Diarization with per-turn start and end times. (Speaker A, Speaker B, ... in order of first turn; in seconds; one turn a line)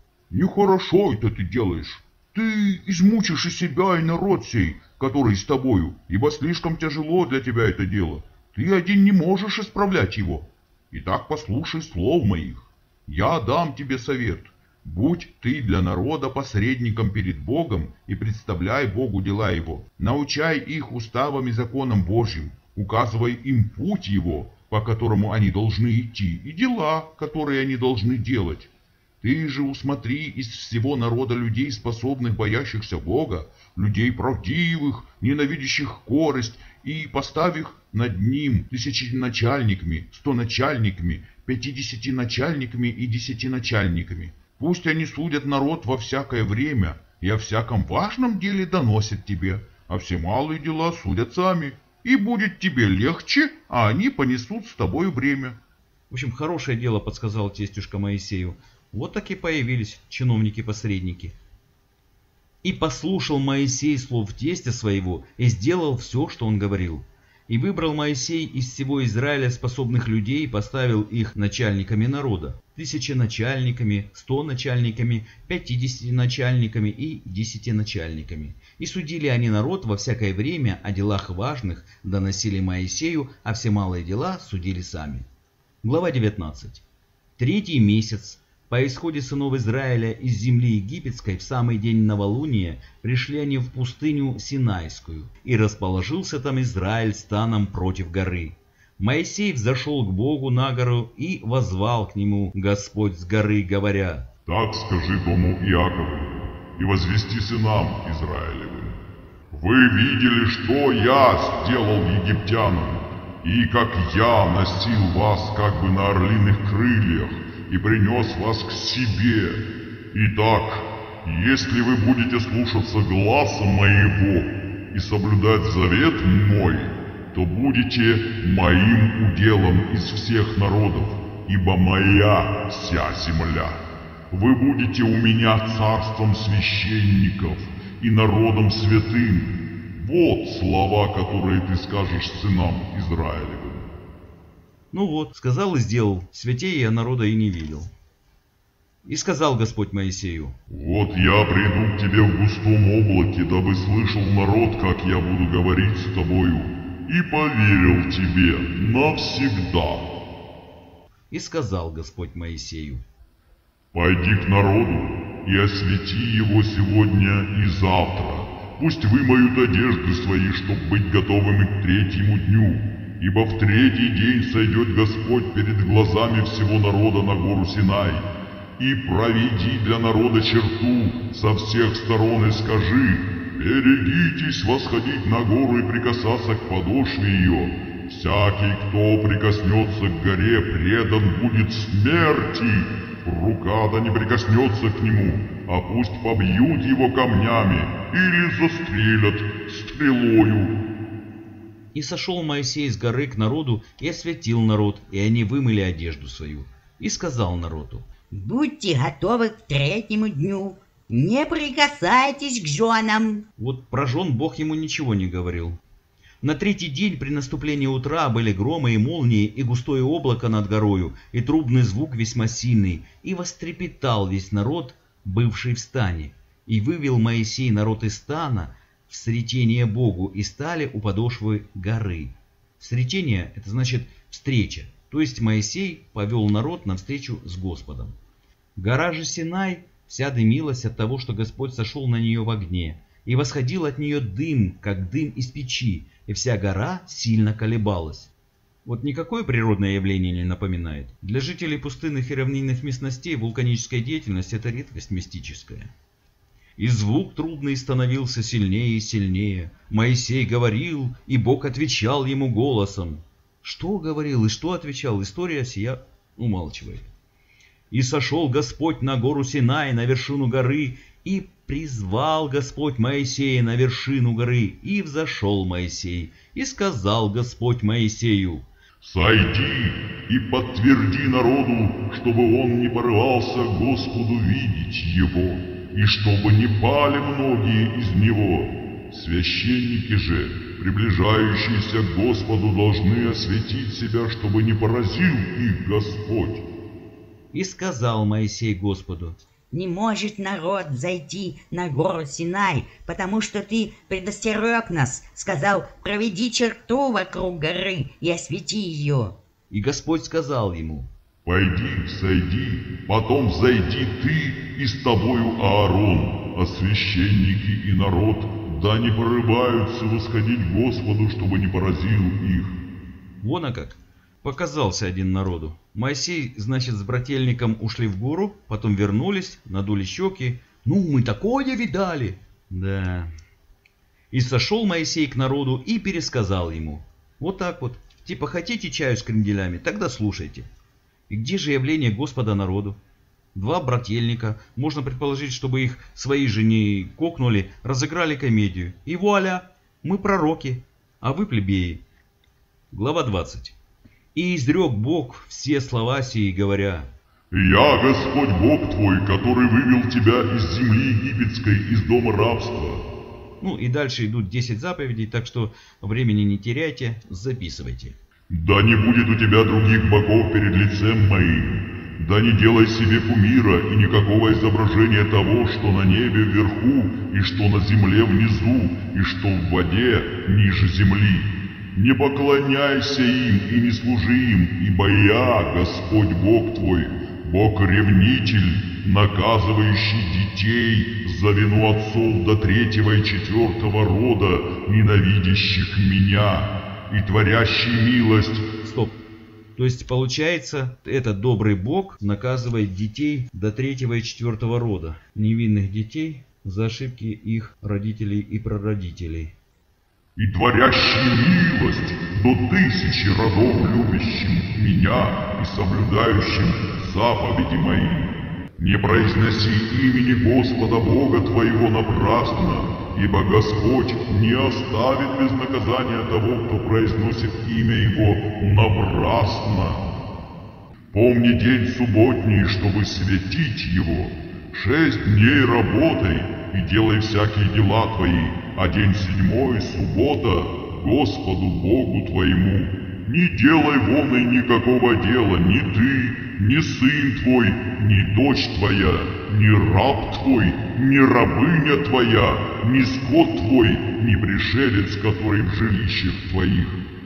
Speaker A: 0.3-28.7
Speaker A: 29.2-55.6
Speaker B: 40.0-40.4
Speaker B: 41.1-41.5
Speaker B: 56.1-61.3
Speaker B: 62.6-85.2
Speaker B: 85.8-86.8
Speaker B: 87.4-104.3
Speaker A: 104.5-109.0
Speaker A: 109.5-143.9
Speaker B: 144.9-147.9
Speaker B: 149.0-150.6
Speaker A: 150.7-160.1
Speaker B: 161.3-163.0
Speaker A: 163.9-178.2
Speaker A: 178.8-200.8
Speaker B: 201.9-208.0
Speaker C: 208.3-213.4
Speaker B: 213.6-215.8
Speaker B: 216.4-238.1
Speaker B: 238.8-248.3
Speaker B: 248.8-255.9
Speaker B: 256.8-267.1
Speaker B: 267.9-278.7
Speaker A: 279.0-296.6
Speaker B: 297.5-299.4
Speaker C: 299.7-309.4
Speaker B: 309.7-311.1
Speaker A: 311.4-322.7
Speaker B: 323.4-333.3
Speaker B: 334.3-340.7
Speaker B: 341.3-343.0
Speaker B: 343.5-352.0
Speaker B: 352.9-353.7
Speaker B: 354.3-357.1
Speaker A: 357.5-363.1
Speaker B: 363.6-368.1
Speaker A: 368.5-398.6
Speaker B: 398.8-399.2
Speaker B: 399.8-409.5
Speaker A: 410.4-430.1
Speaker A: 431.1-457.0